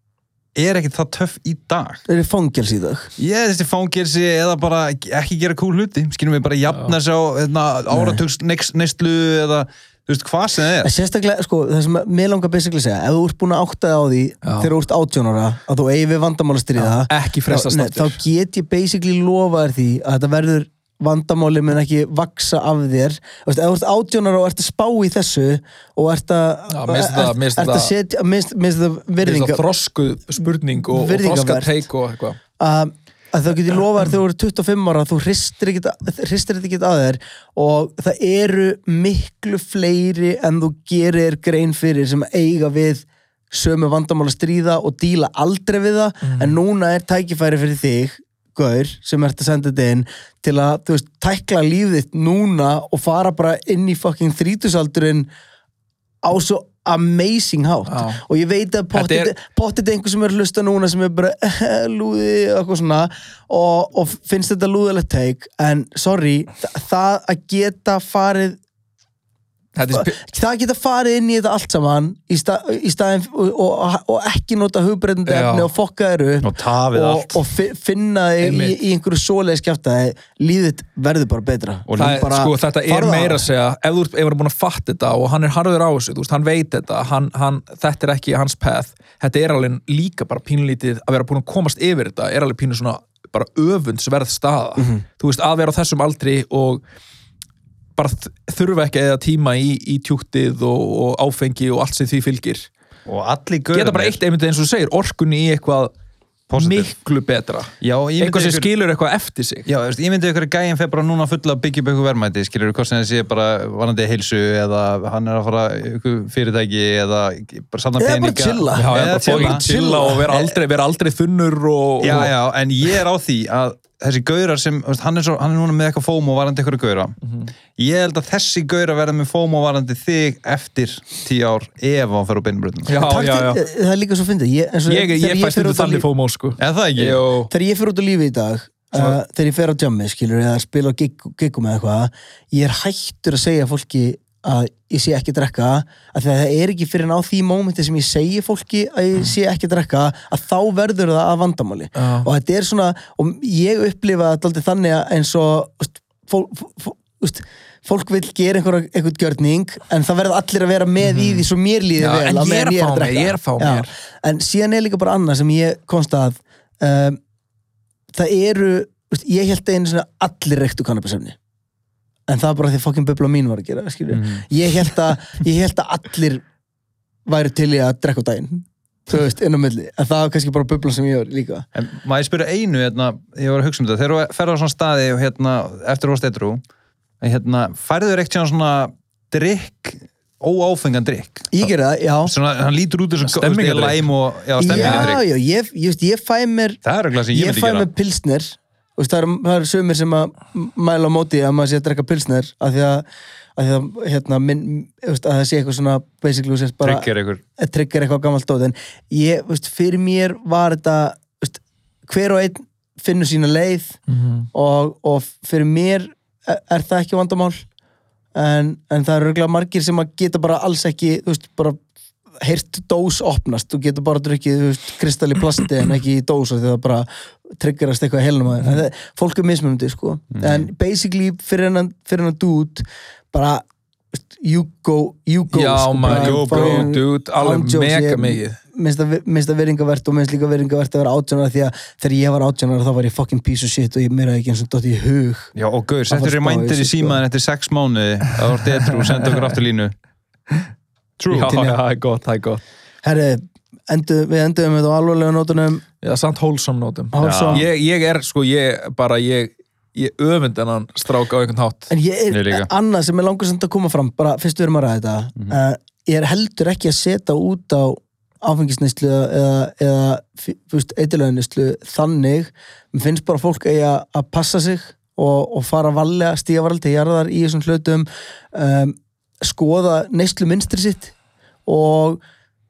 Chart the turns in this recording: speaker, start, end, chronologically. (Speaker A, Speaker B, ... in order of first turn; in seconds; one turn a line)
Speaker A: 0.5-2.0
Speaker B: 2.1-3.1
Speaker A: 3.2-10.9
Speaker B: 7.9-8.2
Speaker B: 10.8-29.6
Speaker C: 14.4-14.7
Speaker C: 16.8-18.2
Speaker C: 26.7-27.9
Speaker C: 29.2-32.4
Speaker B: 30.8-31.8
Speaker B: 32.6-55.3
Speaker C: 46.2-46.5
Speaker B: 56.2-68.6
Speaker C: 57.9-58.2
Speaker C: 58.9-59.3
Speaker C: 69.8-70.2
Speaker B: 69.9-83.5
Speaker C: 75.3-75.7
Speaker A: 76.4-77.4
Speaker C: 78.4-78.8
Speaker A: 81.9-82.2
Speaker C: 82.0-96.8
Speaker C: 98.0-102.7
Speaker A: 103.0-104.2
Speaker C: 103.7-105.9
Speaker A: 106.5-106.9
Speaker C: 106.5-109.7
Speaker A: 107.8-108.7
Speaker A: 109.7-119.6
Speaker B: 118.0-120.4
Speaker C: 118.8-122.3
Speaker A: 122.0-127.2
Speaker C: 127.2-127.5
Speaker A: 127.8-133.0
Speaker C: 132.9-133.6
Speaker B: 133.0-136.1
Speaker C: 134.9-137.5
Speaker A: 136.6-137.2
Speaker B: 137.5-167.2
Speaker C: 151.9-152.3
Speaker C: 161.0-161.4
Speaker C: 162.0-163.9
Speaker B: 168.1-171.4
Speaker B: 172.3-176.4
Speaker A: 174.1-174.5
Speaker B: 177.3-181.6
Speaker A: 181.7-186.6
Speaker A: 187.2-191.7
Speaker B: 191.5-192.3
Speaker A: 192.2-195.2
Speaker C: 193.2-194.1
Speaker B: 194.6-196.8
Speaker C: 194.7-195.1
Speaker A: 196.8-197.9
Speaker B: 197.3-203.0
Speaker B: 203.6-214.0
Speaker A: 206.8-207.4
Speaker C: 214.1-214.5
Speaker B: 214.5-217.6
Speaker B: 218.3-221.8
Speaker B: 222.4-245.5
Speaker A: 230.3-230.7
Speaker C: 235.5-238.6
Speaker A: 236.1-236.9
Speaker A: 245.6-249.9
Speaker B: 246.1-247.2
Speaker A: 251.2-251.7
Speaker C: 251.3-252.6
Speaker B: 251.5-251.8
Speaker B: 253.0-255.8
Speaker C: 256.0-261.9
Speaker B: 257.1-257.6
Speaker A: 257.2-257.7
Speaker B: 261.9-281.1
Speaker A: 262.3-262.7
Speaker B: 281.6-282.2